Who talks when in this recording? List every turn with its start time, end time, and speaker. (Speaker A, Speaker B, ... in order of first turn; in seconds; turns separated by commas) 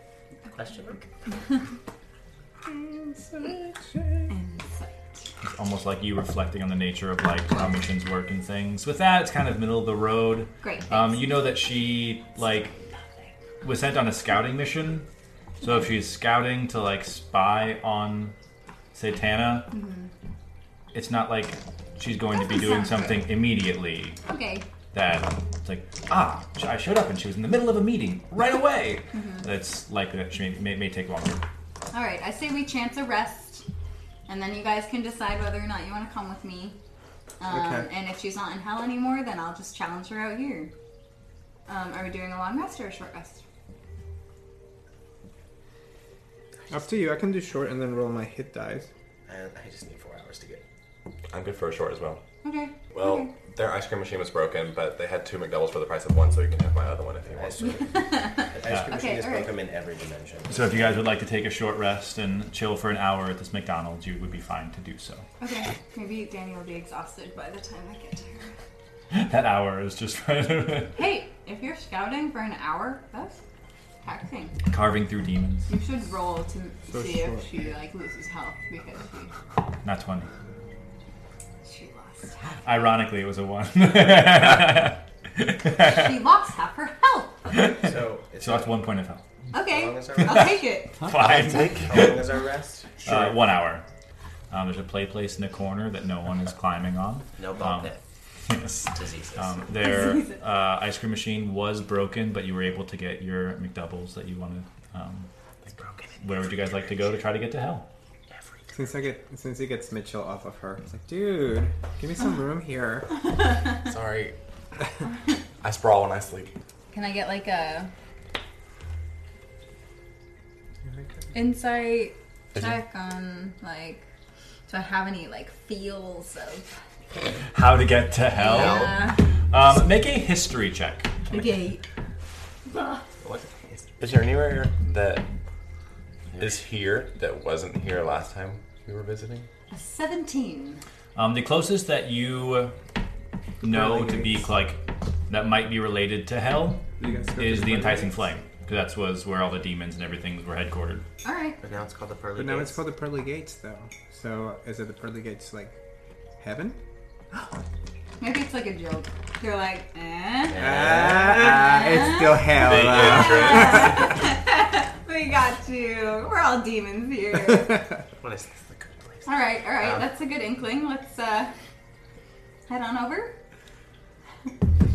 Speaker A: 0.5-1.1, Speaker B: 2.6-4.3, Speaker C: 4.3-5.2, Speaker D: 5.4-12.7, Speaker C: 10.6-11.2, Speaker D: 13.6-15.1, Speaker C: 15.6-15.9, Speaker D: 15.6-18.4, Speaker D: 18.9-19.7, Speaker C: 19.7-20.1, Speaker D: 20.9-24.2, Speaker C: 22.3-23.1, Speaker C: 24.3-24.7, Speaker D: 24.9-31.4, Speaker C: 29.1-29.5, Speaker C: 31.9-33.6, Speaker C: 34.3-36.8, Speaker C: 37.4-40.7, Speaker B: 37.5-37.9, Speaker C: 41.7-43.4, Speaker B: 46.7-48.9, Speaker A: 49.3-50.6, Speaker E: 51.3-52.2, Speaker C: 52.4-53.3, Speaker E: 52.9-57.7, Speaker A: 57.3-60.8, Speaker C: 57.9-59.5, Speaker D: 60.5-65.2, Speaker C: 65.4-68.5, Speaker D: 69.1-71.0, Speaker C: 71.0-73.4, Speaker C: 74.0-74.6, Speaker D: 74.7-75.7, Speaker C: 75.7-79.3, Speaker B: 76.9-77.4, Speaker D: 79.8-80.3, Speaker C: 81.7-82.7, Speaker D: 82.7-86.2, Speaker C: 85.7-87.5, Speaker D: 87.5-89.2, Speaker A: 87.7-88.8, Speaker C: 89.5-91.0, Speaker A: 89.6-90.6, Speaker D: 91.0-92.2, Speaker E: 91.1-92.2, Speaker A: 91.8-93.4, Speaker D: 93.0-93.8, Speaker D: 94.5-97.9, Speaker A: 97.4-98.0, Speaker D: 98.5-105.3, Speaker A: 99.0-99.6, Speaker D: 106.2-107.9, Speaker A: 108.3-108.9, Speaker B: 108.7-113.2, Speaker E: 113.8-114.3, Speaker E: 115.6-116.5, Speaker C: 116.9-117.9, Speaker C: 121.3-124.0, Speaker C: 124.7-126.8, Speaker D: 127.5-131.4, Speaker C: 128.3-129.2, Speaker A: 128.5-129.0, Speaker C: 131.3-131.8, Speaker E: 133.2-135.3, Speaker A: 136.3-136.6, Speaker E: 136.4-139.5, Speaker C: 139.7-140.8, Speaker D: 141.2-142.8, Speaker D: 143.6-151.1, Speaker B: 143.7-144.4, Speaker B: 147.0-148.2, Speaker C: 151.2-151.6, Speaker A: 151.6-152.8, Speaker B: 152.4-155.8, Speaker B: 156.4-156.8, Speaker C: 158.2-160.7, Speaker A: 160.5-161.5, Speaker B: 160.6-164.1, Speaker C: 161.4-167.8, Speaker E: 162.6-164.2, Speaker A: 168.2-169.3, Speaker C: 169.3-171.5, Speaker C: 172.7-173.3